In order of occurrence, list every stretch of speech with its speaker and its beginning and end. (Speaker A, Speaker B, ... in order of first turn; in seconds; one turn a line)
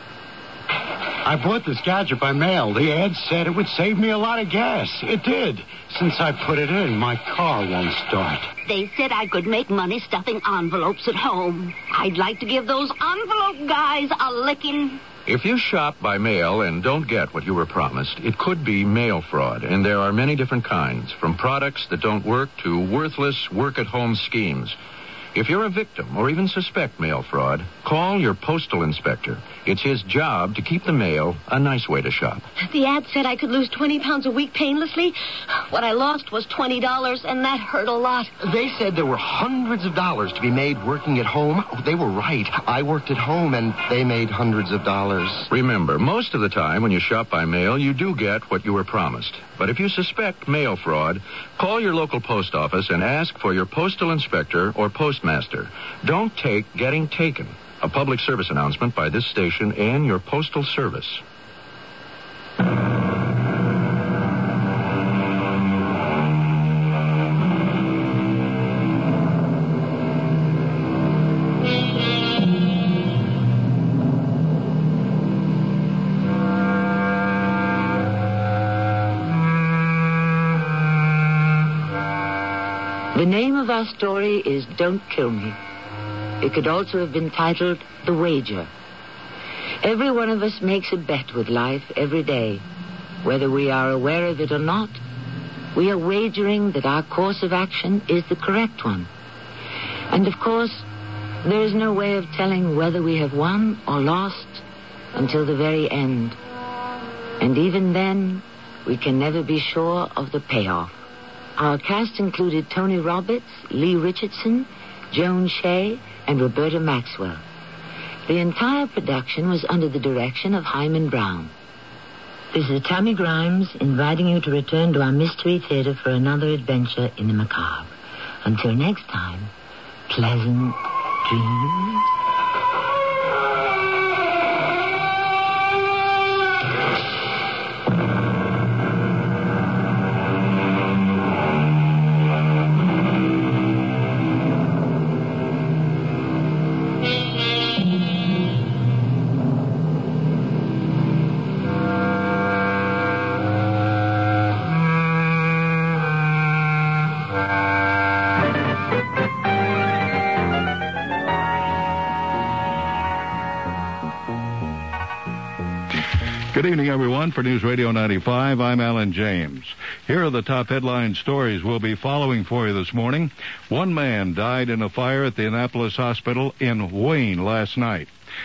Speaker A: 1.2-8.5
Speaker B: 8.7-15.0
Speaker C: 15.2-24.8
Speaker C: 25.3-32.5
Speaker D: 32.6-35.1
Speaker D: 35.7-38.3
Speaker E: 38.4-45.5
Speaker C: 45.5-61.2
Speaker F: 83.1-85.6
Speaker F: 86.4-88.7
Speaker F: 89.8-92.6
Speaker F: 93.2-95.0
Speaker F: 95.7-99.1
Speaker F: 100.1-100.8
Speaker F: 101.4-106.4
Speaker F: 107.4-111.0
Speaker F: 111.6-117.4
Speaker F: 118.3-121.5
Speaker F: 122.5-127.9
Speaker F: 128.4-129.5
Speaker F: 130.1-132.1
Speaker G: 166.5-178.1